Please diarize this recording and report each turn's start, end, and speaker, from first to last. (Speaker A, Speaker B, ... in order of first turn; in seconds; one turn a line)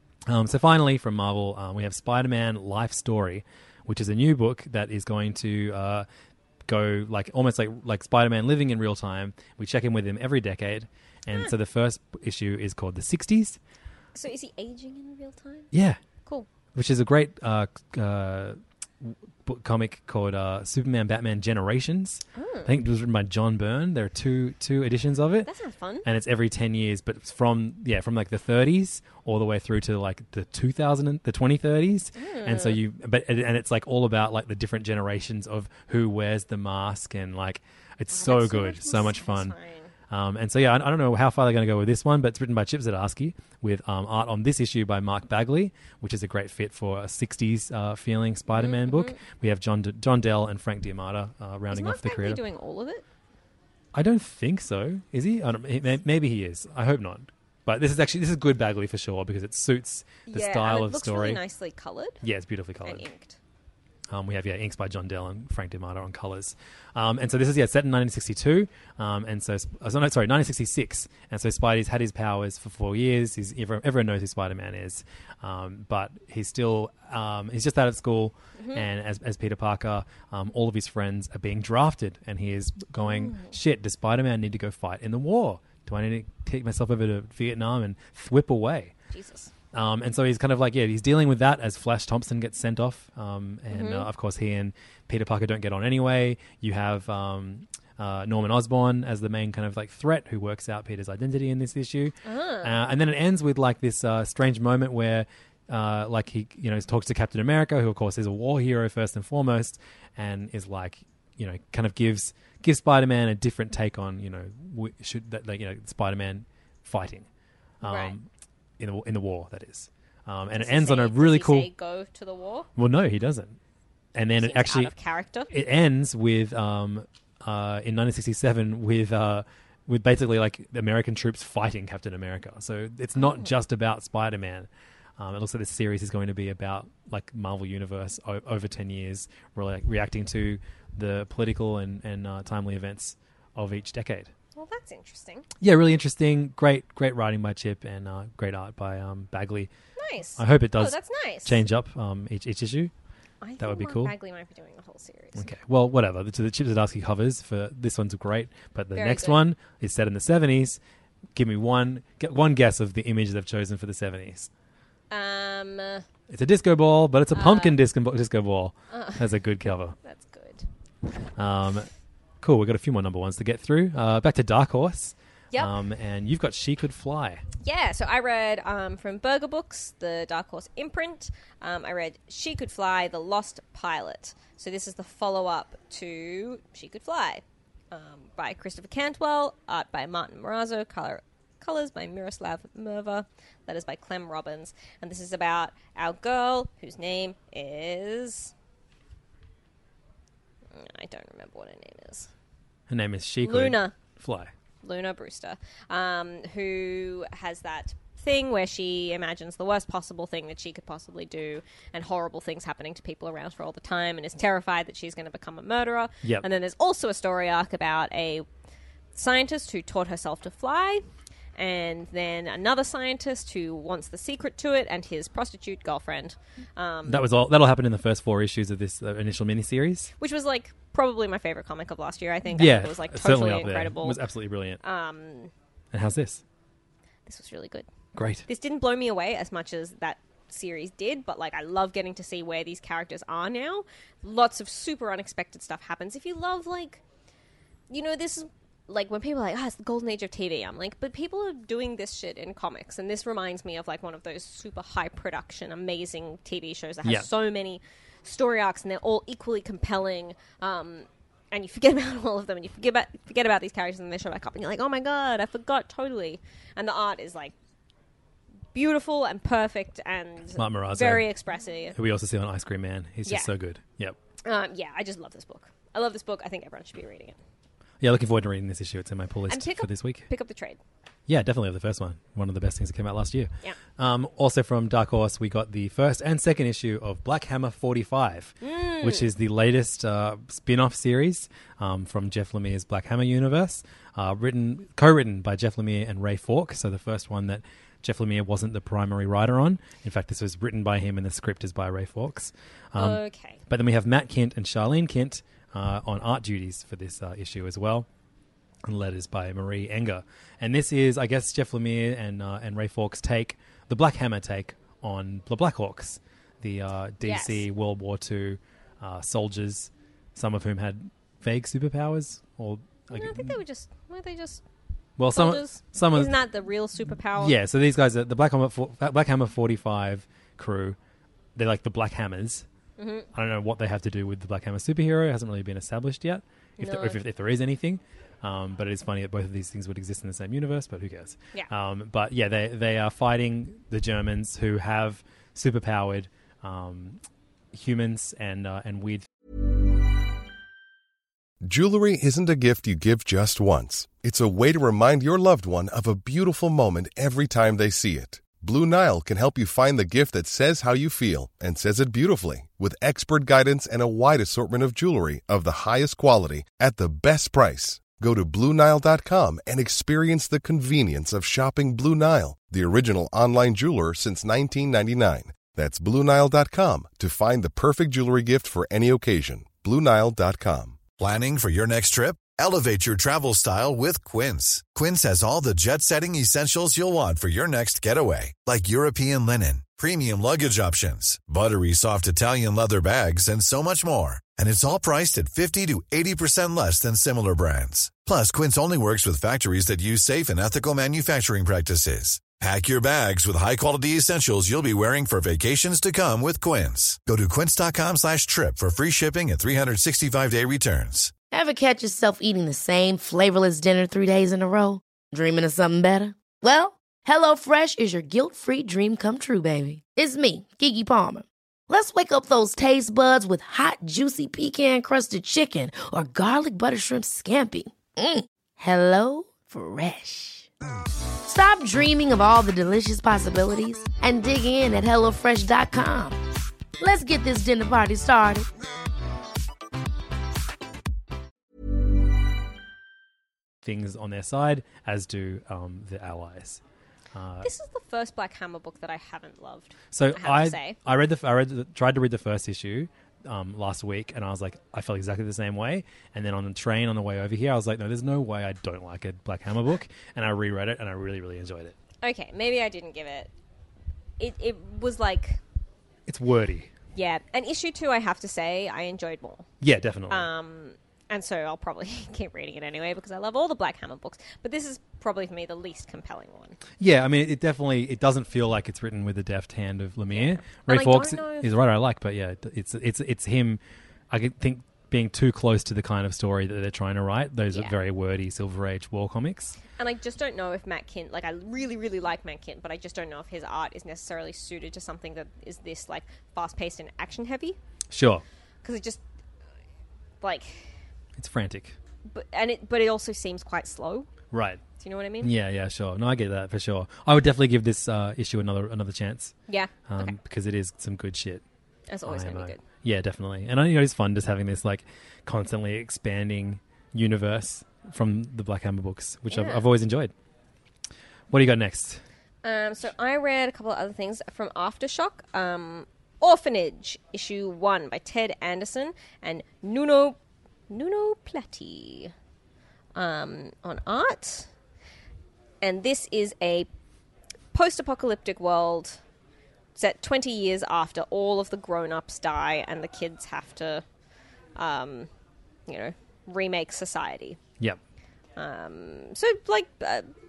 Speaker A: 0.3-6.0
Speaker A: 6.7-13.6
Speaker B: 14.2-15.7
Speaker A: 15.7-16.0
Speaker A: 16.7-25.5
Speaker B: 22.4-22.7
Speaker B: 25.4-26.1
Speaker A: 26.0-39.5
Speaker B: 32.2-32.8
Speaker B: 38.1-39.9
Speaker A: 40.1-52.4
Speaker B: 48.5-49.2
Speaker B: 51.7-53.0
Speaker A: 53.9-61.4
Speaker B: 60.3-62.2
Speaker A: 62.2-63.0
Speaker B: 62.8-63.4
Speaker A: 64.1-88.9
Speaker B: 78.6-78.8
Speaker B: 83.0-83.5
Speaker B: 89.1-89.5
Speaker A: 89.7-117.2
Speaker B: 93.7-94.1
Speaker B: 102.2-102.7
Speaker A: 117.8-118.2
Speaker B: 117.8-118.1
Speaker A: 118.8-121.7
Speaker B: 120.6-122.7
Speaker A: 122.8-123.6
Speaker A: 124.1-124.9
Speaker B: 124.3-125.5
Speaker A: 125.5-134.7
Speaker B: 133.2-133.5
Speaker A: 135.2-144.3
Speaker B: 144.6-145.4
Speaker A: 145.6-149.7
Speaker B: 150.0-151.6
Speaker A: 150.4-152.9
Speaker B: 153.4-155.5
Speaker A: 153.6-154.1
Speaker A: 155.3-160.8
Speaker B: 158.9-159.4
Speaker A: 161.3-164.5
Speaker B: 165.1-166.0
Speaker A: 166.3-170.0
Speaker B: 167.3-167.7
Speaker B: 168.9-169.2
Speaker B: 170.0-170.6
Speaker A: 171.4-171.9
Speaker A: 172.4-177.4
Speaker B: 177.6-198.5
Speaker B: 200.7-202.3
Speaker A: 202.9-204.5
Speaker B: 203.4-203.9
Speaker B: 204.8-218.4
Speaker B: 219.1-221.0
Speaker B: 221.6-227.2
Speaker A: 227.1-230.1
Speaker B: 230.2-234.2
Speaker A: 232.5-234.8
Speaker B: 234.8-235.5
Speaker A: 235.9-236.4
Speaker B: 237.2-237.9
Speaker A: 238.1-238.5
Speaker B: 238.5-247.0
Speaker B: 247.9-267.5
Speaker B: 268.7-271.9
Speaker A: 270.6-271.3
Speaker A: 271.9-274.1
Speaker B: 274.4-277.4
Speaker A: 278.0-280.3
Speaker B: 279.5-280.8
Speaker A: 281.3-308.1
Speaker B: 288.6-289.2
Speaker B: 303.0-303.6
Speaker A: 308.9-323.6
Speaker B: 317.2-317.6
Speaker B: 323.1-324.6
Speaker A: 325.2-326.3
Speaker B: 325.3-327.6
Speaker A: 327.4-331.0
Speaker A: 331.6-332.6
Speaker B: 333.0-333.3
Speaker A: 333.3-347.2
Speaker B: 336.8-337.2
Speaker A: 347.7-349.2
Speaker C: 351.6-381.1
Speaker D: 381.2-411.3
Speaker E: 411.5-430.7
Speaker E: 431.4-436.4
Speaker E: 437.0-438.7
Speaker A: 443.8-446.8
Speaker A: 447.3-447.7
Speaker B: 447.6-450.9
Speaker A: 450.1-461.9
Speaker B: 462.2-463.5
Speaker B: 464.4-465.6
Speaker A: 466.3-466.9
Speaker B: 467.1-469.6
Speaker A: 469.8-470.5
Speaker B: 470.3-476.8
Speaker A: 477.0-483.8
Speaker B: 480.3-481.7
Speaker A: 484.3-489.8
Speaker B: 490.0-497.8
Speaker A: 498.1-498.4
Speaker B: 498.8-499.2
Speaker B: 500.4-500.9
Speaker A: 501.4-501.9
Speaker B: 502.3-504.3
Speaker A: 504.5-504.8
Speaker B: 505.0-505.5
Speaker A: 505.4-509.5
Speaker B: 509.7-510.4
Speaker A: 510.1-511.6
Speaker B: 512.1-512.8
Speaker A: 512.2-520.3
Speaker B: 519.5-519.8
Speaker A: 521.5-522.2
Speaker B: 522.6-530.4
Speaker B: 530.9-532.3
Speaker B: 533.1-534.7
Speaker B: 535.8-536.9
Speaker B: 537.7-539.2
Speaker B: 540.0-544.0
Speaker B: 544.8-545.3
Speaker B: 545.9-547.6
Speaker B: 548.5-550.3